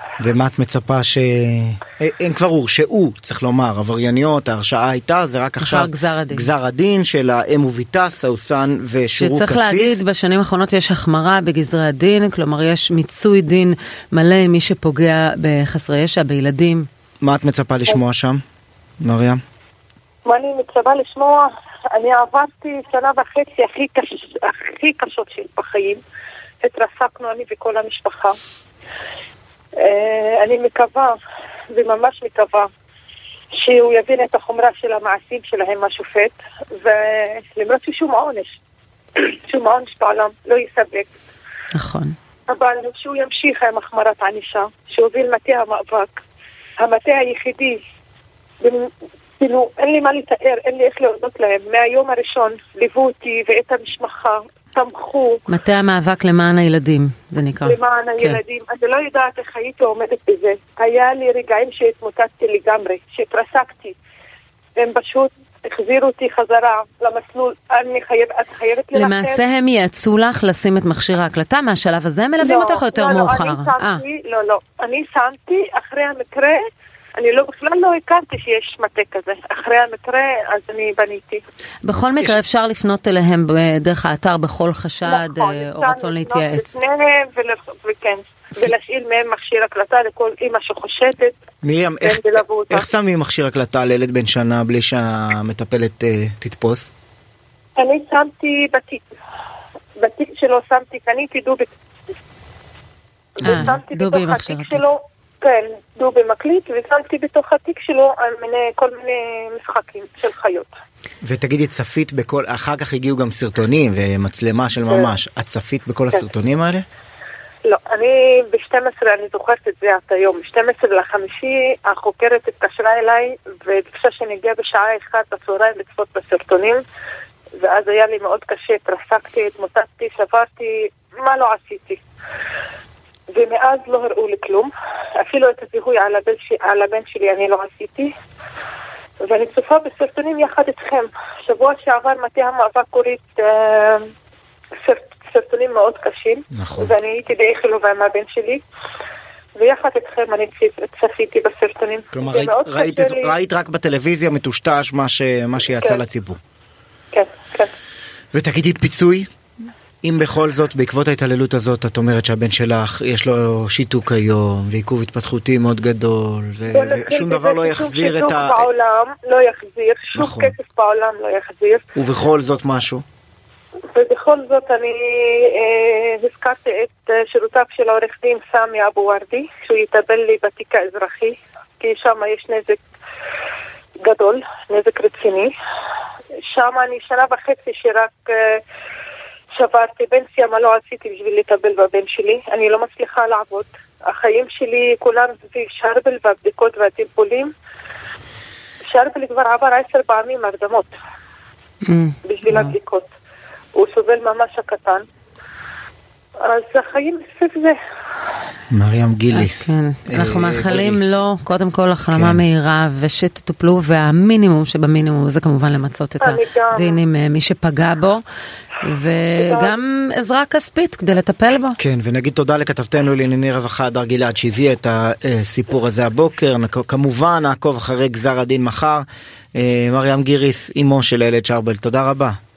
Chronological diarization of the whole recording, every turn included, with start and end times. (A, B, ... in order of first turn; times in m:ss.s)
0:00.2-0:10.0 A
0:05.6-0:06.5 B
0:09.2-0:16.9 B
0:17.2-0:18.4 A
0:19.0-0:19.4 A
0:20.2-0:26.0 C
0:26.6-0:28.4 C
0:29.8-0:31.2 C
0:31.7-0:32.7 C
0:33.5-0:38.6 C
0:39.2-0:41.1 C
0:41.7-0:42.1 B
0:42.5-0:46.2 C
0:46.8-0:47.8 C
0:48.6-0:55.4 C
0:55.5-0:58.4 B
0:57.6-1:04.0 C
1:04.8-1:09.4 C
1:08.9-1:14.0 B
1:12.4-1:16.6 C
1:17.2-1:21.4 C
1:21.8-1:26.8 B
1:25.0-1:31.3 C
1:31.6-1:36.9 A
1:32.0-1:32.9 C
1:37.8-1:39.1 C
1:40.0-1:41.7 C
1:43.4-1:50.7 C
1:43.4-1:43.7 A
1:43.4-1:44.8 B
1:51.2-1:56.8 A
1:54.9-1:55.1 C
1:57.6-2:06.8 C
2:07.6-2:12.0 C
2:13.3-2:18.1 C
2:19.2-2:24.1 C
2:24.8-2:28.6 C
2:26.5-2:26.9 A
2:29.6-2:33.4 C
2:32.1-2:36.4 A
2:35.8-2:36.0 C
2:37.1-2:37.7 C
2:38.3-2:39.3 A
2:40.0-2:48.7 A
2:46.7-2:51.8 C
2:50.1-2:50.5 A
2:52.0-2:53.0 A
2:53.9-3:02.8 C
3:04.0-3:05.5 C
3:06.5-3:08.6 C
3:09.5-3:17.5 C
3:18.9-3:20.9 C
3:21.8-3:22.7 B
3:22.2-3:23.1 C
3:23.7-3:25.0 C
3:26.4-3:27.8 C
3:28.7-3:31.2 A
3:29.3-3:38.2 B
3:32.1-3:32.4 A
3:36.2-3:37.0 C
3:38.8-3:41.8 B
3:39.4-3:39.8 C
3:41.8-3:49.0 A
3:49.6-3:52.3 A